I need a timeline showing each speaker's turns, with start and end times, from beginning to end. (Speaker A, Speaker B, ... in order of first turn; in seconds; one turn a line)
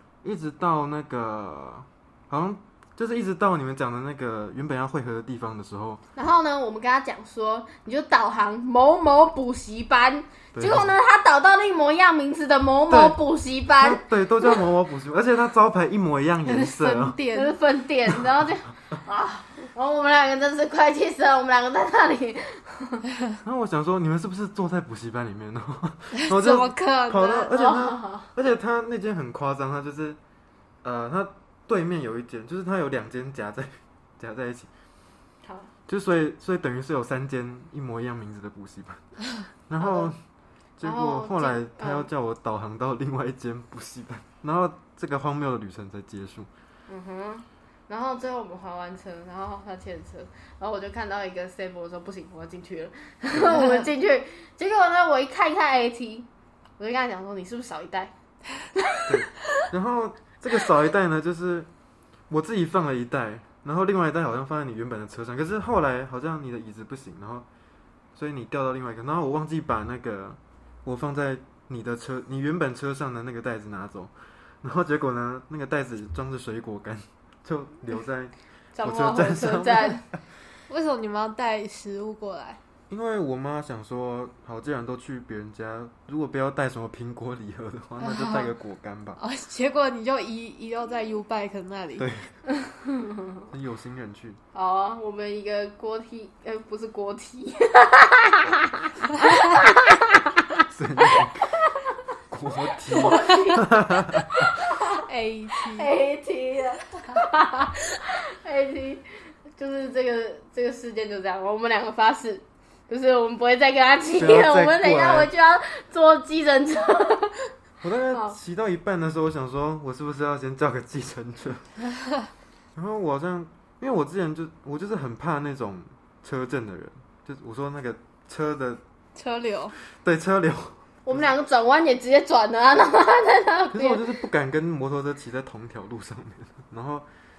Speaker A: 0.2-6.0
Speaker B: 6.2-14.6
Speaker A: 10.5-10.9
Speaker A: 12.9-13.2
Speaker A: 13.8-17.2
Speaker C: 16.5-17.6
Speaker B: 17.3-23.0
Speaker A: 23.4-30.2
Speaker C: 26.2-27.5
Speaker B: 27.5-28.3
Speaker A: 30.8-34.7
Speaker B: 35.4-35.7
Speaker A: 35.9-39.0
Speaker A: 39.7-40.2
Speaker B: 39.8-40.1
Speaker A: 40.8-46.5
Speaker B: 40.8-42.1
Speaker B: 46.9-56.3
Speaker B: 56.8-58.1
Speaker A: 59.1-61.7
Speaker A: 62.3-67.5
Speaker A: 68.1-80.2
Speaker B: 78.8-80.0
Speaker C: 80.7-82.6
Speaker A: 82.9-89.2
Speaker C: 88.0-88.5
Speaker C: 89.2-92.1
Speaker A: 92.0-92.3
Speaker B: 92.6-93.5
Speaker A: 93.5-94.4
Speaker B: 94.5-100.2
Speaker A: 100.7-101.5
Speaker B: 101.1-101.9
Speaker A: 102.3-104.5
Speaker B: 102.8-105.0
Speaker C: 104.9-105.9
Speaker B: 105.7-117.5
Speaker A: 114.2-115.3
Speaker A: 117.8-121.7
Speaker A: 122.8-128.8
Speaker C: 129.1-129.8
Speaker A: 130.0-131.3
Speaker B: 131.0-134.0
Speaker A: 133.7-137.1